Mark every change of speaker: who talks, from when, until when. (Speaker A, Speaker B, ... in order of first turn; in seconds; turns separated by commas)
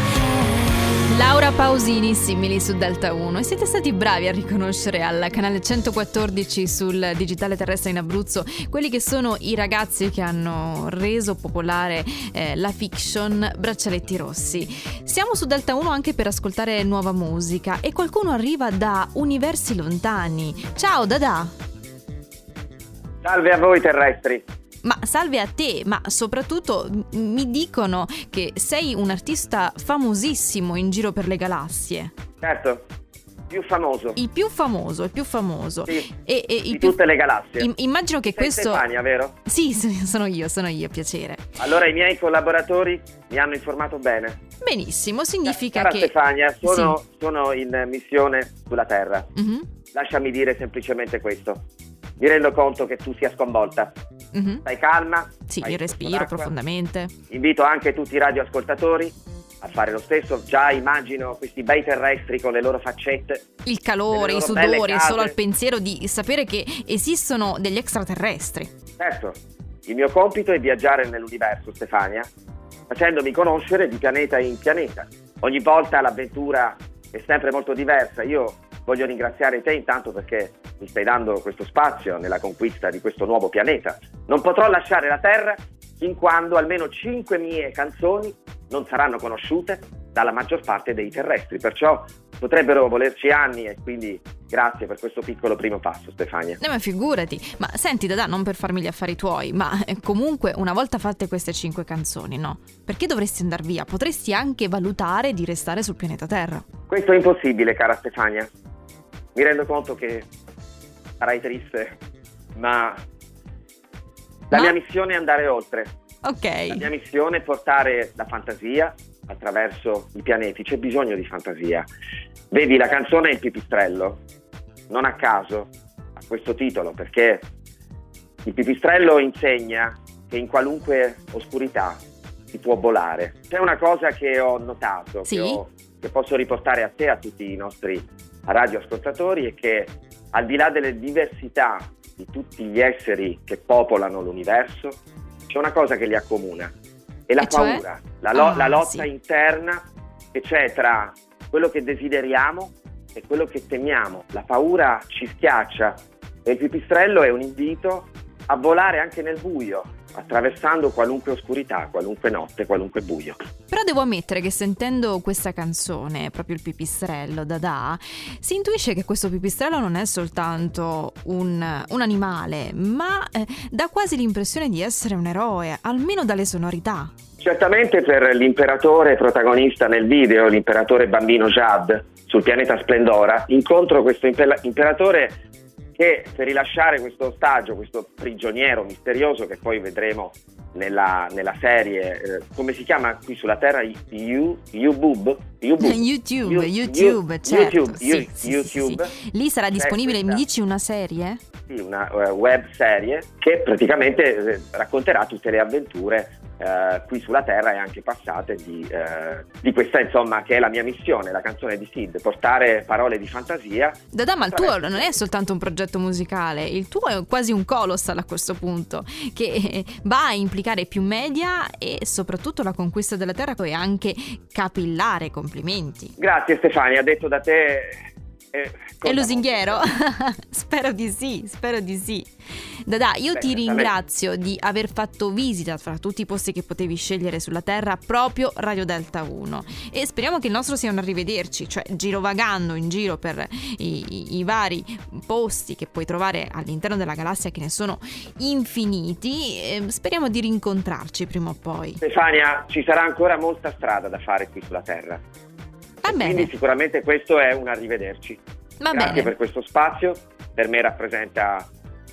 Speaker A: 1.1-21.5, Speaker B: 23.2-24.4, Speaker A: 24.8-32.1, Speaker B: 32.4-32.8, Speaker B: 33.5-34.2, Speaker A: 34.1-37.0, Speaker B: 36.7-37.7, Speaker A: 37.6-38.8, Speaker B: 38.2-39.4, Speaker A: 39.5-41.4, Speaker B: 41.6-44.4, Speaker A: 44.6-46.1, Speaker B: 45.5-49.3, Speaker A: 46.6-47.0, Speaker A: 49.4-49.7, Speaker B: 49.9-51.6, Speaker B: 52.2-53.9, Speaker A: 54.3-54.6, Speaker B: 54.6-56.5, Speaker A: 55.5-57.1, Speaker B: 57.3-63.5, Speaker A: 63.6-68.7, Speaker B: 64.1-65.3, Speaker B: 69.0-69.3, Speaker B: 69.9-72.3, Speaker B: 72.9-96.6, Speaker A: 96.6-106.6, Speaker B: 106.9-108.5, Speaker B: 109.3-110.3, Speaker B: 111.2-112.0, Speaker B: 112.5-113.0, Speaker B: 114.5-115.9, Speaker A: 116.2-116.9, Speaker B: 116.7-121.9, Speaker B: 122.5-124.2, Speaker B: 124.9-127.4, Speaker B: 128.4-132.0, Speaker B: 132.5-146.7, Speaker A: 135.2-135.6, Speaker B: 147.3-149.8, Speaker A: 147.4-149.1, Speaker B: 150.3-163.3, Speaker A: 163.7-177.1, Speaker B: 177.4-185.4, Speaker B: 186.0-199.1, Speaker A: 195.8-201.4, Speaker B: 199.7-200.4, Speaker B: 201.7-215.2, Speaker A: 214.1-226.1, Speaker B: 226.2-229.9, Speaker A: 229.0-232.3, Speaker A: 232.8-252.0, Speaker B: 233.3-233.9, Speaker B: 252.0-255.2, Speaker A: 256.0-256.5, Speaker B: 256.0-258.4, Speaker A: 258.8-259.3, Speaker B: 258.9-261.6